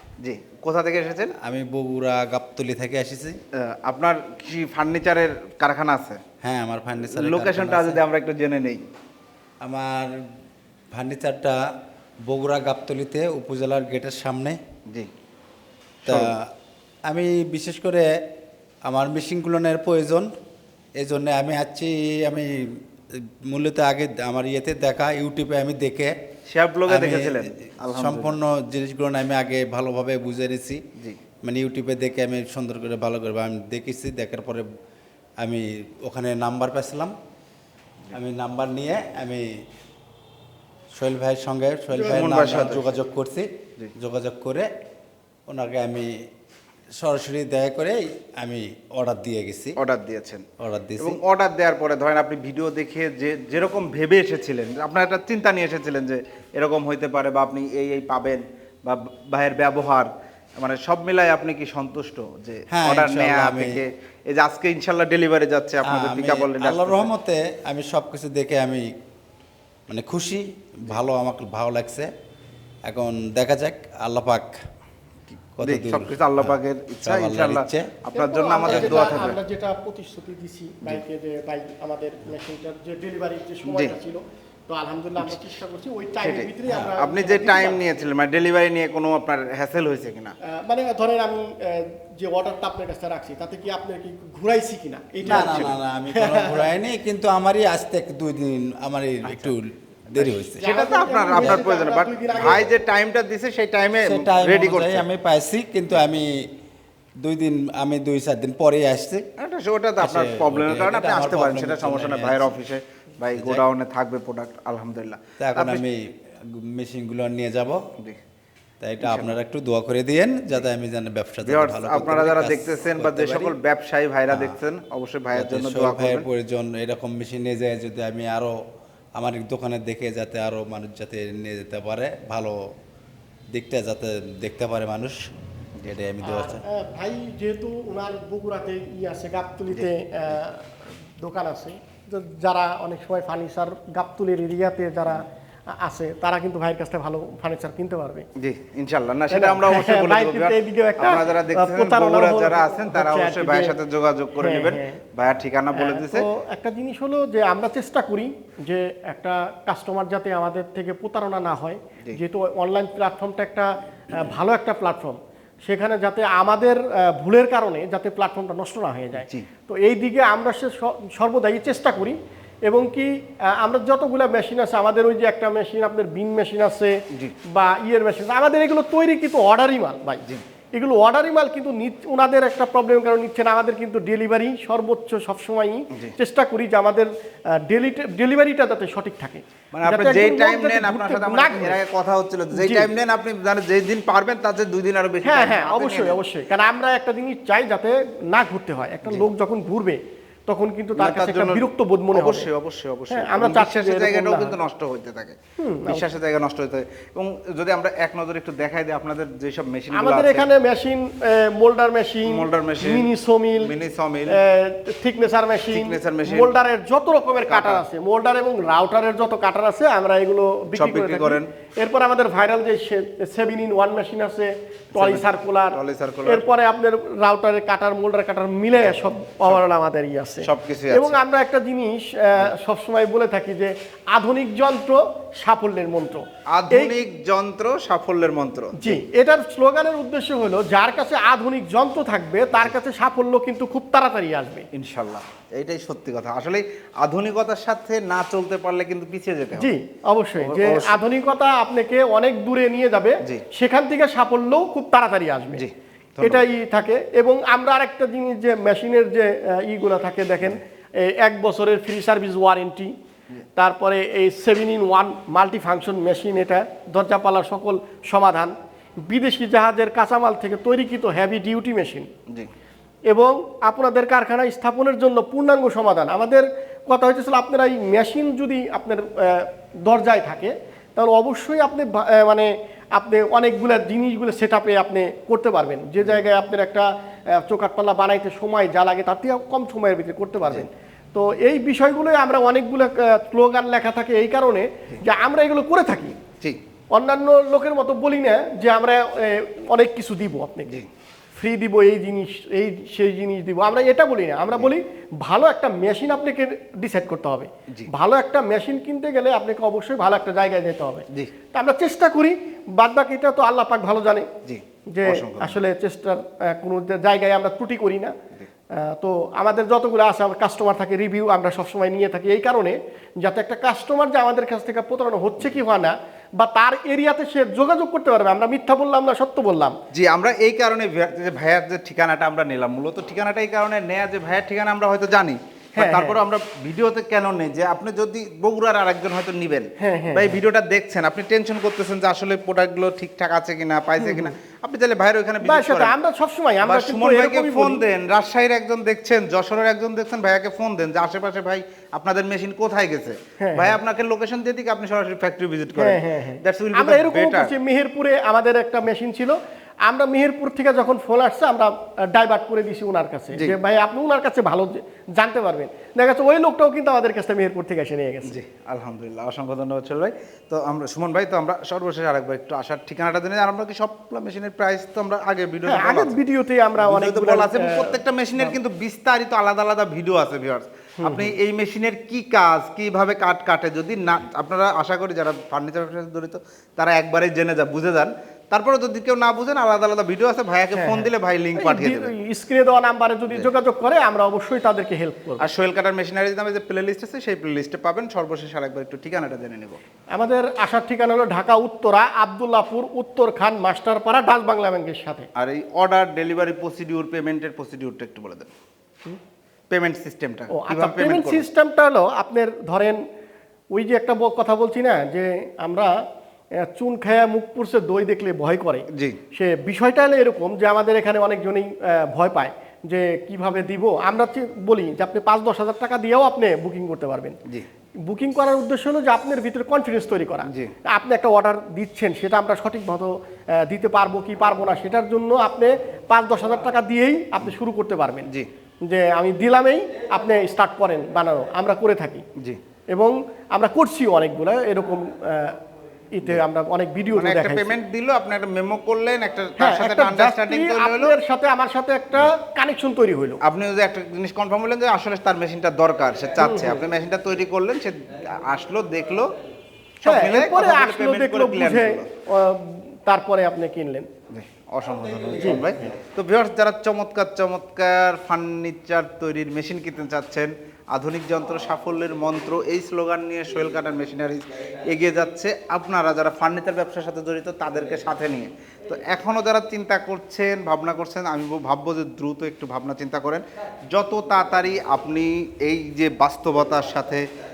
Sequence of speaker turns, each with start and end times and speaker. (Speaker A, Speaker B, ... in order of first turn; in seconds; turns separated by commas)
Speaker A: 0.2-1.3, Speaker B: 1.4-3.4, Speaker A: 3.7-6.2, Speaker B: 6.4-8.0, Speaker A: 7.2-8.8, Speaker B: 9.6-10.1, Speaker B: 10.9-11.6, Speaker B: 12.3-14.6, Speaker A: 16.0-16.3, Speaker B: 16.1-16.5, Speaker B: 17.1-18.1, Speaker B: 18.9-20.3, Speaker B: 21.0-22.5, Speaker B: 23.5-26.1, Speaker A: 26.5-28.4, Speaker B: 26.9-30.8, Speaker B: 31.4-34.6, Speaker B: 35.4-37.1, Speaker B: 38.1-39.5, Speaker B: 41.0-44.7, Speaker A: 42.0-43.0, Speaker B: 45.5-46.1, Speaker B: 47.0-49.7, Speaker A: 49.8-50.4, Speaker B: 50.6-51.2, Speaker A: 51.0-67.1, Speaker B: 62.7-63.8, Speaker B: 65.8-68.9, Speaker B: 69.9-72.1, Speaker B: 72.9-74.6, Speaker B: 75.6-77.9, Speaker A: 75.6-79.4, Speaker C: 78.1-88.0, Speaker B: 78.6-79.2, Speaker A: 83.7-83.9, Speaker A: 86.2-90.3, Speaker C: 90.5-96.7, Speaker A: 95.2-95.7, Speaker B: 95.2-100.6, Speaker A: 99.2-99.5, Speaker A: 100.2-105.0, Speaker C: 100.6-102.7, Speaker B: 101.3-101.6, Speaker B: 104.0-106.3, Speaker B: 107.2-109.2, Speaker A: 109.4-115.8, Speaker B: 110.0-112.6, Speaker B: 113.3-113.6, Speaker B: 115.4-116.0, Speaker B: 116.6-117.8, Speaker B: 118.8-123.5, Speaker A: 119.0-119.3, Speaker A: 121.4-126.2, Speaker B: 125.3-128.5, Speaker B: 129.2-132.5, Speaker B: 133.5-135.2, Speaker B: 135.8-136.6, Speaker C: 136.2-148.2, Speaker A: 148.4-156.3, Speaker C: 149.3-153.7, Speaker C: 154.4-155.0, Speaker C: 155.7-177.0, Speaker A: 169.2-169.5, Speaker C: 177.5-180.2, Speaker C: 180.7-187.1, Speaker C: 187.6-191.8, Speaker A: 189.7-196.2, Speaker C: 192.5-192.9, Speaker C: 195.2-202.5, Speaker A: 200.9-205.3, Speaker C: 203.1-204.5, Speaker C: 205.6-206.1, Speaker A: 205.9-210.5, Speaker C: 209.9-213.7, Speaker A: 212.3-213.1, Speaker A: 213.6-214.3, Speaker C: 214.3-236.9, Speaker A: 215.7-216.5, Speaker A: 217.5-217.8, Speaker A: 220.7-221.5, Speaker A: 224.9-226.4, Speaker A: 230.4-231.2, Speaker A: 236.5-239.0, Speaker C: 238.8-244.7, Speaker A: 244.7-249.7, Speaker C: 249.6-255.6, Speaker A: 250.4-251.0, Speaker A: 255.6-256.4, Speaker C: 256.2-262.9, Speaker C: 263.6-268.5, Speaker C: 269.1-272.1, Speaker C: 273.1-286.9, Speaker C: 287.4-296.2, Speaker C: 296.9-300.7, Speaker C: 301.4-314.3, Speaker A: 314.4-315.6, Speaker C: 314.9-318.1, Speaker C: 318.8-329.8, Speaker A: 329.9-345.9, Speaker C: 335.8-336.2, Speaker C: 339.8-340.4, Speaker C: 344.0-344.3, Speaker C: 345.4-347.8, Speaker A: 346.6-357.5, Speaker C: 353.4-353.8, Speaker C: 355.8-368.4, Speaker A: 368.3-376.1, Speaker C: 375.6-378.5, Speaker A: 376.8-392.1, Speaker C: 381.0-381.3, Speaker C: 390.7-395.4, Speaker A: 395.4-399.8, Speaker C: 400.1-405.3, Speaker A: 405.4-408.5, Speaker A: 409.7-411.4, Speaker C: 410.5-413.0, Speaker C: 413.7-415.9, Speaker C: 416.7-427.4, Speaker A: 418.9-419.2, Speaker C: 428.1-433.1, Speaker C: 433.6-438.3, Speaker C: 438.9-442.2, Speaker C: 442.9-445.6, Speaker C: 446.1-447.8, Speaker A: 447.1-451.1, Speaker C: 449.6-453.4, Speaker A: 453.4-459.3, Speaker C: 456.4-456.8, Speaker A: 460.0-462.1, Speaker C: 460.0-464.1, Speaker A: 464.3-487.2, Speaker C: 465.4-465.8